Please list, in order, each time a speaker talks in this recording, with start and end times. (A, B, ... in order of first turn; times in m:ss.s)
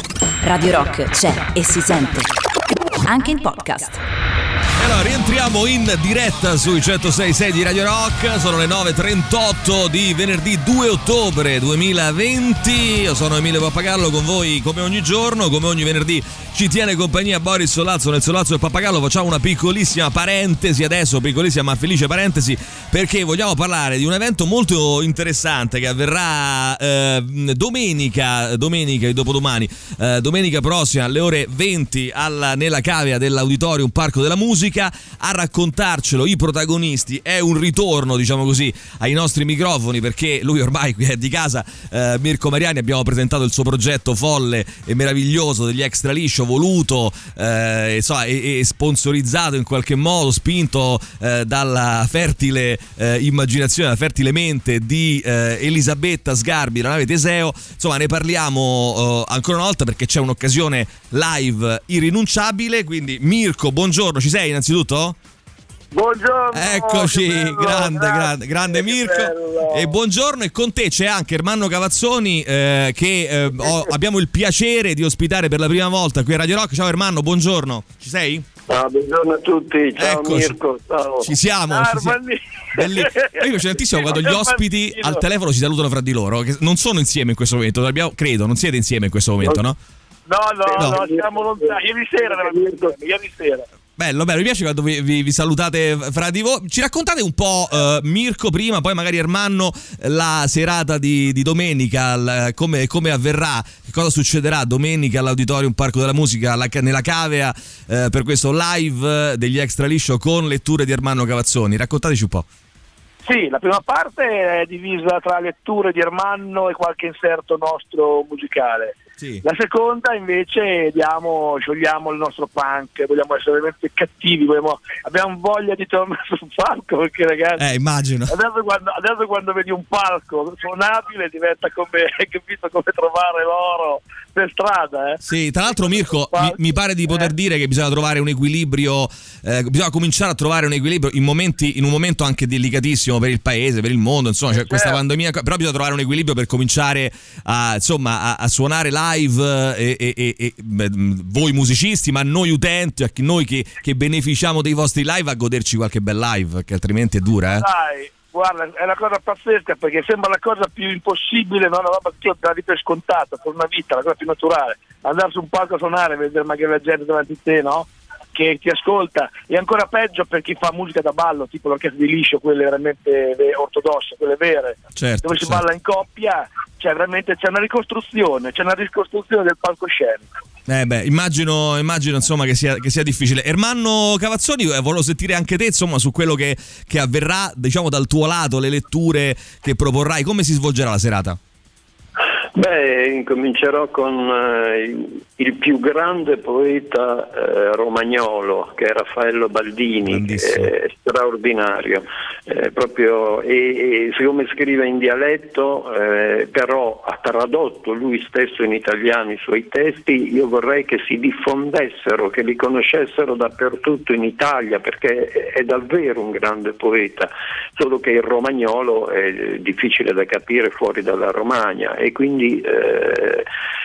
0:00.4-0:02.3 A
0:03.0-0:04.0 A
0:04.8-1:05.2 B
1:05.9-1:09.9 C
1:06.5-1:18.5 B
1:13.6-1:13.9 C
1:18.7-1:21.3 D
1:20.0-1:20.6 B
1:21.2-1:22.2 B
1:21.7-1:25.2 C
1:22.8-1:29.8 B
1:30.3-1:33.7 C
1:30.7-1:31.0 B
1:30.8-1:31.6 D
1:32.4-1:32.9 D
1:34.0-1:52.5 B
1:53.2-2:07.6 C
2:07.6-2:08.3 B
2:08.3-2:17.3 C
2:15.2-2:37.6 B
2:24.5-2:25.0 C
2:37.5-3:00.3 C
2:55.0-2:55.6 B
3:00.7-3:11.4 B
3:12.5-3:43.5 D
3:20.0-3:20.7 B